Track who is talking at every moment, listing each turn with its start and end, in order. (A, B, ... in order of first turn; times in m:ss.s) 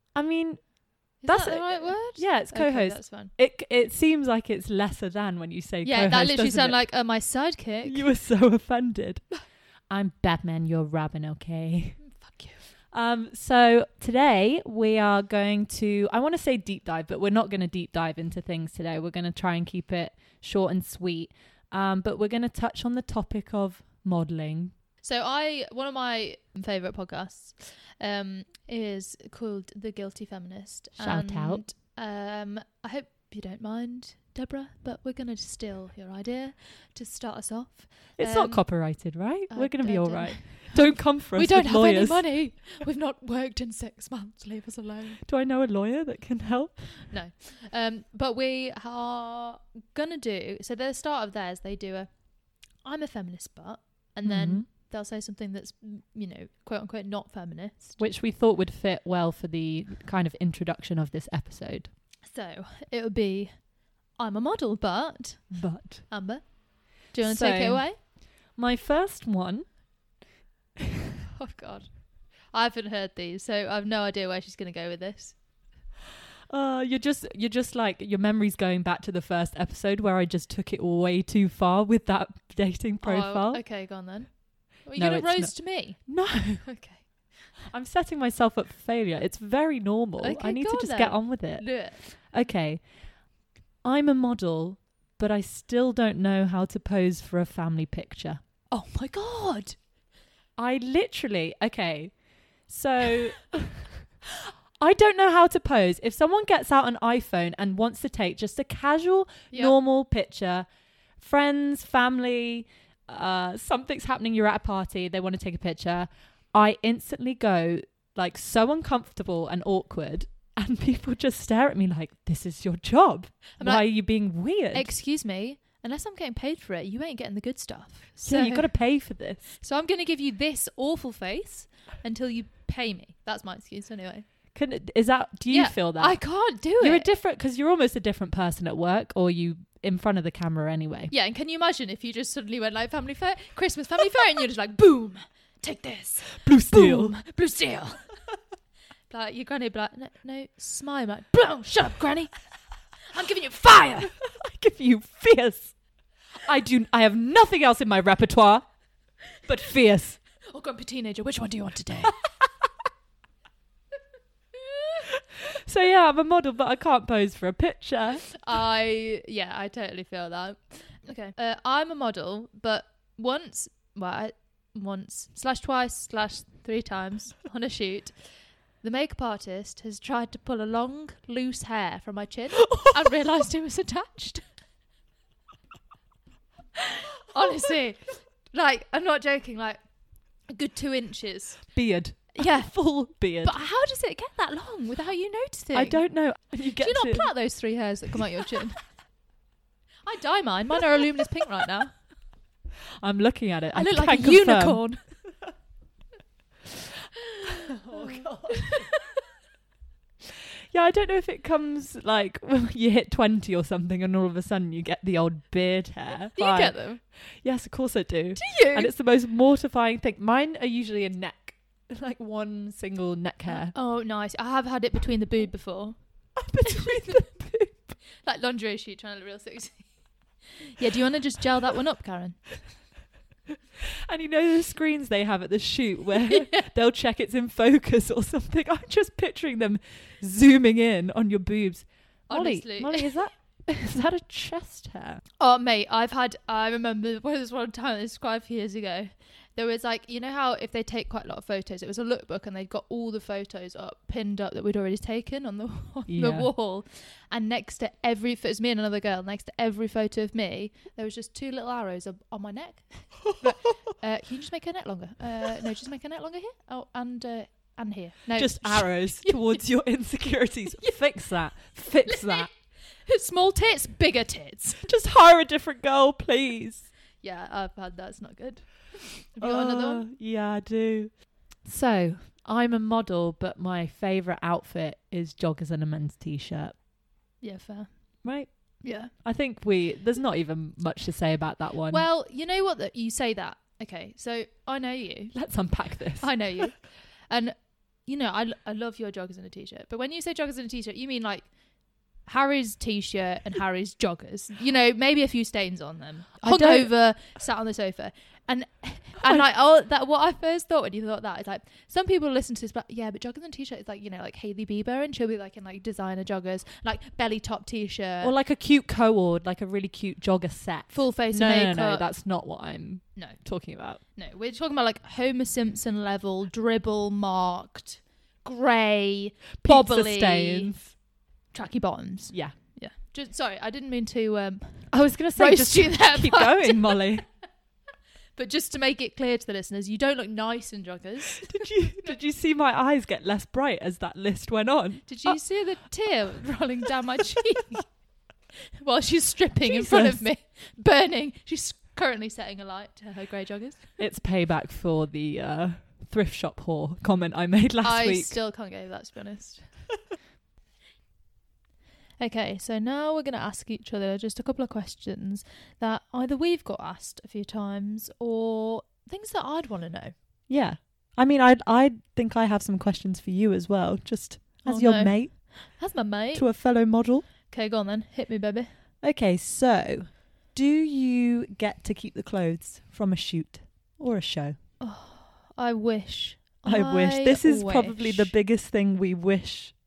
0:00.2-0:00.6 A
0:01.2-0:03.3 B
0:01.3-0:06.8 A
0:05.8-0:08.0 B
0:07.8-0:09.2 A
0:09.9-0:12.0 A
0:12.0-0:12.6 B
0:12.9-0:24.7 A
0:25.0-0:38.8 B
0:31.0-0:31.6 A
0:38.2-0:42.2 A
0:39.5-0:45.2 B
0:45.2-0:46.9 A
0:47.0-0:52.1 B
0:52.8-0:58.0 B
0:54.2-0:54.7 A
0:58.0-1:01.9 A
1:02.3-1:03.6 B
1:04.2-1:05.5 B
1:05.5-1:06.1 A
1:06.1-1:08.0 B
1:07.2-1:09.7 A
1:11.4-1:15.4 B
1:16.5-1:23.6 A
1:23.0-1:27.1 B
1:25.0-1:26.7 A
1:27.6-1:32.8 A
1:30.2-1:32.0 B
1:33.8-1:38.4 A
1:38.7-1:39.8 B
1:40.6-1:42.1 A
1:42.7-1:44.0 A
1:44.8-1:50.7 A
1:51.2-2:04.9 A
2:03.6-2:03.8 B
2:04.7-2:08.7 B
2:08.2-2:09.5 A
2:09.6-2:14.2 B
2:14.6-2:16.2 A
2:15.5-2:17.1 B
2:16.8-2:21.1 A
2:21.1-2:28.1 B
2:26.3-2:27.2 A
2:29.1-2:32.3 B
2:33.1-2:34.1 B
2:34.1-2:35.8 A
2:36.4-2:38.6 A
2:39.5-2:40.2 A
2:40.5-2:42.2 B
2:45.4-2:48.3 A
2:48.4-2:58.1 B
2:58.8-3:04.4 B
3:02.8-3:03.2 A
3:06.8-3:09.8 B
3:10.5-3:11.6 B
3:11.7-3:13.6 A
3:12.4-3:12.7 B
3:13.4-3:16.0 B
3:15.7-3:17.3 A
3:16.8-3:18.8 B
3:20.1-3:22.0 B
3:23.0-3:24.8 A
3:23.7-3:25.0 B
3:27.3-3:29.2 B
3:27.5-3:28.9 A
3:30.7-3:36.8 A
3:36.4-3:37.0 B
3:37.4-3:43.7 A
3:38.4-3:38.9 B
3:43.5-3:46.0 B
3:46.4-3:48.0 A
3:46.6-3:47.3 B
3:48.2-3:49.9 B
3:50.6-3:52.4 B
3:53.8-4:05.2 A
3:56.3-3:56.7 B
4:02.3-4:03.1 B
4:05.4-4:29.6 B
4:16.1-4:16.5 A
4:28.4-4:32.5 A
4:32.1-4:32.5 B
4:33.1-4:34.9 B
4:34.8-4:36.9 A
4:37.2-4:40.1 B
4:39.4-4:46.8 A
4:47.4-4:47.9 B
4:48.2-4:48.5 A
4:48.8-4:49.1 B
4:49.0-4:52.1 A
4:51.9-4:55.4 B
4:55.3-4:56.7 A
4:56.2-5:01.5 B
5:02.3-5:18.3 B
5:06.4-5:06.9 A
5:18.2-5:24.0 A
5:20.9-5:22.1 B
5:24.2-5:30.7 B
5:29.6-5:30.9 A
5:31.5-5:37.0 B
5:34.9-5:37.2 A
5:38.4-5:42.1 B
5:41.4-5:45.4 A
5:45.1-5:47.9 B
5:48.8-5:54.0 B
5:49.6-5:50.2 A
5:54.0-5:58.4 A
5:57.8-5:59.7 B
6:02.2-6:10.1 B
6:10.5-6:15.4 A
6:14.6-6:16.5 B
6:16.3-6:17.3 A
6:17.5-6:18.7 B
6:19.0-6:24.6 A
6:24.8-6:28.3 B
6:26.6-6:29.8 A